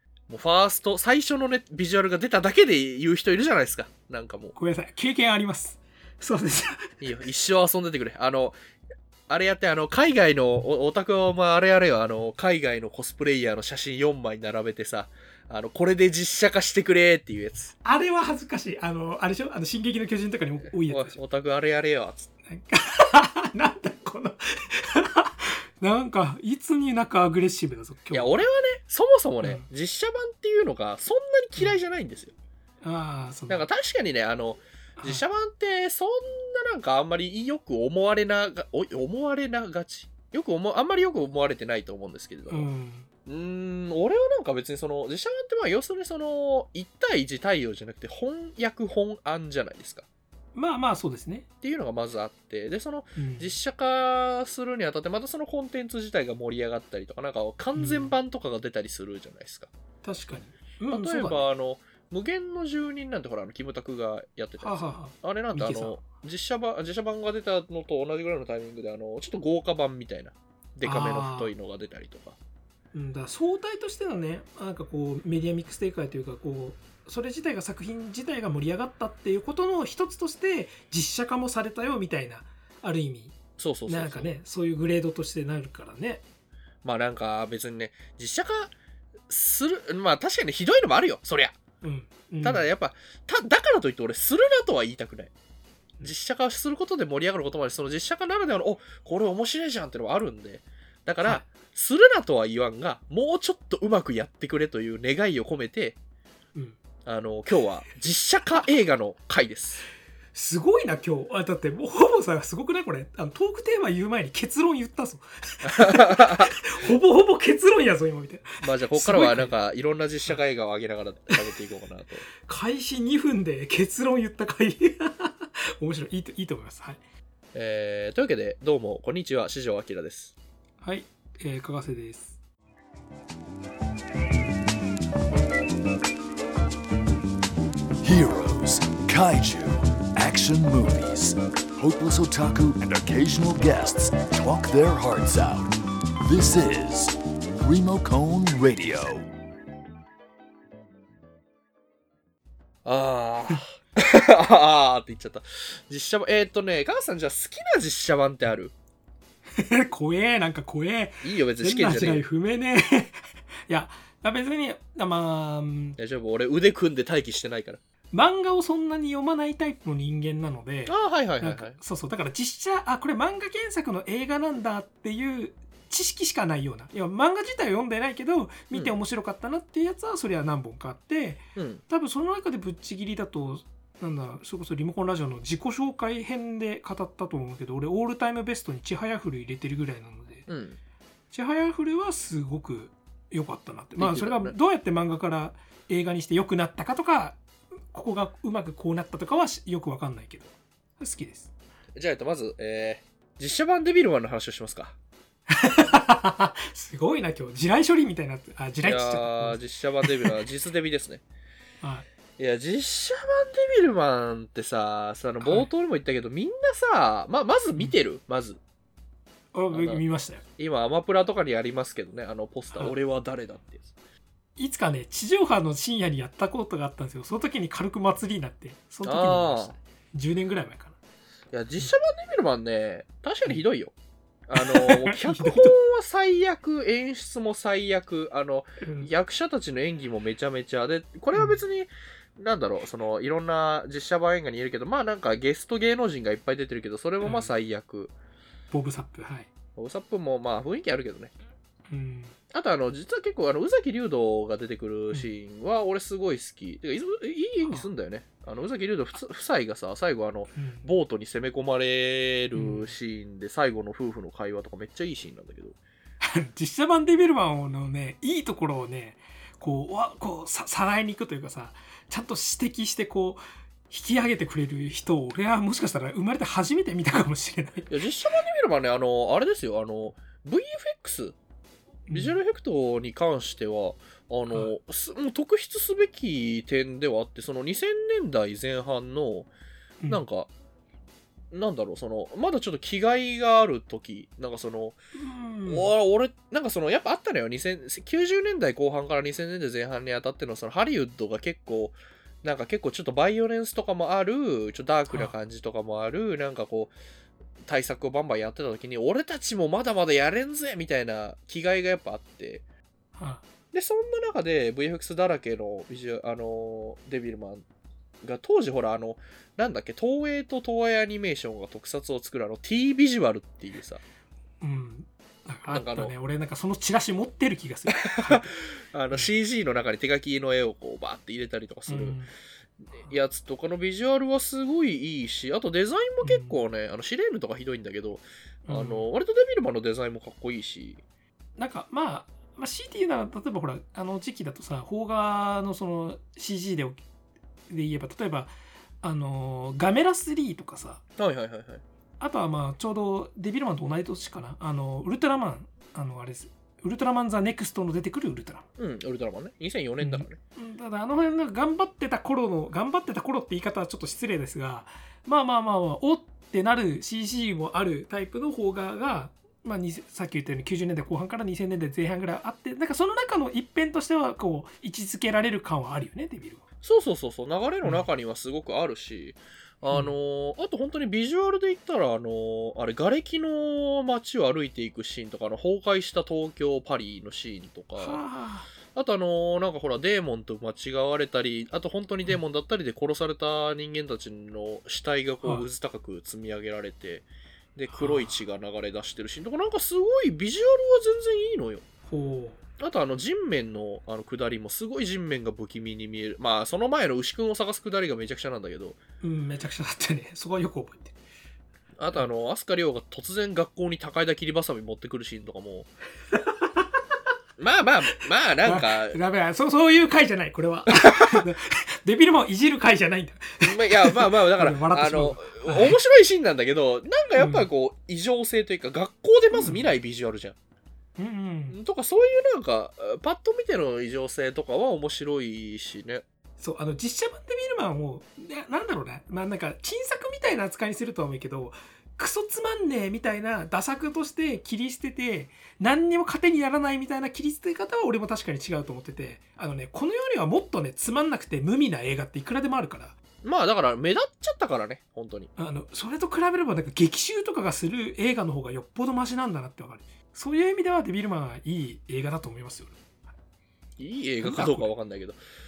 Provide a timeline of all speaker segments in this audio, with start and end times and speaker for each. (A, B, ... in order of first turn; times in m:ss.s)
0:00.3-0:04.5 A
0:04.5-0:07.0 B
0:07.0-0:08.6 A
0:09.3-0:17.7 A
0:17.8-0:21.2 B
0:20.9-0:22.3 A
0:22.5-0:28.4 B
0:28.1-0:32.3 A
0:32.8-0:33.7 B
0:33.5-0:42.7 A
0:35.0-0:35.2 B
0:42.5-0:43.1 B
0:43.2-0:50.0 A
0:50.5-0:51.5 B
0:51.6-0:59.7 A
0:53.2-0:53.5 B
0:57.8-0:58.1 B
1:00.0-1:01.4 B
1:00.9-1:12.4 A
1:04.6-1:06.0 B
1:10.8-1:11.5 B
1:12.9-1:26.2 B
1:23.6-1:24.3 A
1:26.8-1:28.7 A
1:29.3-1:31.5 A
1:31.8-1:32.7 B
1:32.4-1:35.3 A
1:36.0-1:46.0 A
1:47.0-1:49.8 A
1:50.3-1:59.5 B
1:55.6-1:56.6 A
1:58.6-2:02.2 A
2:02.4-2:07.0 B
2:07.5-2:10.3 A
2:10.8-2:12.3 B
2:18.0-2:29.3 C
2:32.8-2:38.7 A
2:39.5-2:46.0 B
2:41.2-2:42.2 A
2:46.0-2:47.8 A
2:48.1-3:10.5 B
2:50.8-2:51.8 A
3:01.6-3:01.8 A
3:10.5-3:10.8 A
3:11.3-3:17.4 B
3:14.0-3:14.5 A
3:17.9-3:21.5 B
3:22.0-3:24.9 A
3:25.5-3:30.3 B
3:28.8-3:31.2 A
3:31.8-3:32.0 B
3:32.4-3:38.6 A
3:35.4-3:35.7 B
3:39.5-3:40.4 B
3:39.7-3:40.0 A
3:40.6-3:43.9 A
3:44.6-3:51.0 B
3:49.0-3:49.7 A
3:51.5-3:53.9 A
3:54.5-4:08.1 A
3:54.5-3:55.7 B
3:58.8-3:59.1 B
4:01.3-4:01.6 B
4:07.2-4:07.5 B
4:08.7-4:09.5 B
4:09.8-4:11.3 A
4:11.9-4:12.4 B
4:12.5-4:25.8 A
4:20.5-4:20.8 B
4:22.5-4:22.9 B
4:26.2-4:37.9 B
4:37.9-4:41.4 A
4:42.1-4:42.4 B
4:42.1-4:49.5 A
4:50.1-4:50.5 A
4:51.5-4:55.0 A
4:55.2-4:55.9 B
4:55.6-5:06.9 A
5:05.1-5:05.3 B
5:07.6-5:12.6 A
5:13.1-5:13.4 B
5:13.7-5:17.6 A
5:18.2-5:24.0 A
5:24.6-5:28.6 B
5:25.7-5:26.1 A
5:27.9-5:32.2 A
5:31.9-5:32.3 B
5:32.9-5:41.0 A
5:36.2-5:36.6 B
5:38.6-5:39.1 B
5:41.6-5:47.0 B
5:47.7-5:51.0 B
5:51.2-5:51.8 A
5:52.2-5:58.6 B
5:58.8-6:00.4 A
6:00.0-6:16.6 B
6:16.8-6:28.2 A
6:19.9-6:20.1 B
6:28.0-6:28.7 B
6:28.9-6:41.8 A
6:37.9-6:38.4 B
6:42.1-6:42.6 B
6:42.8-6:49.0 A
6:49.2-6:51.2 B
6:52.0-6:55.9 A
6:56.3-6:57.2 B
6:57.6-6:59.2 A
6:58.6-7:06.0 B
7:00.9-7:01.4 A
7:03.6-7:10.5 A
7:07.4-7:07.7 B
7:09.5-7:09.9 B
7:11.2-7:11.8 B
7:11.7-7:16.2 A
7:16.6-7:33.1 B
7:33.4-7:35.5 A
7:35.6-7:43.0 B
7:44.0-7:45.4 A
7:44.4-7:44.9 B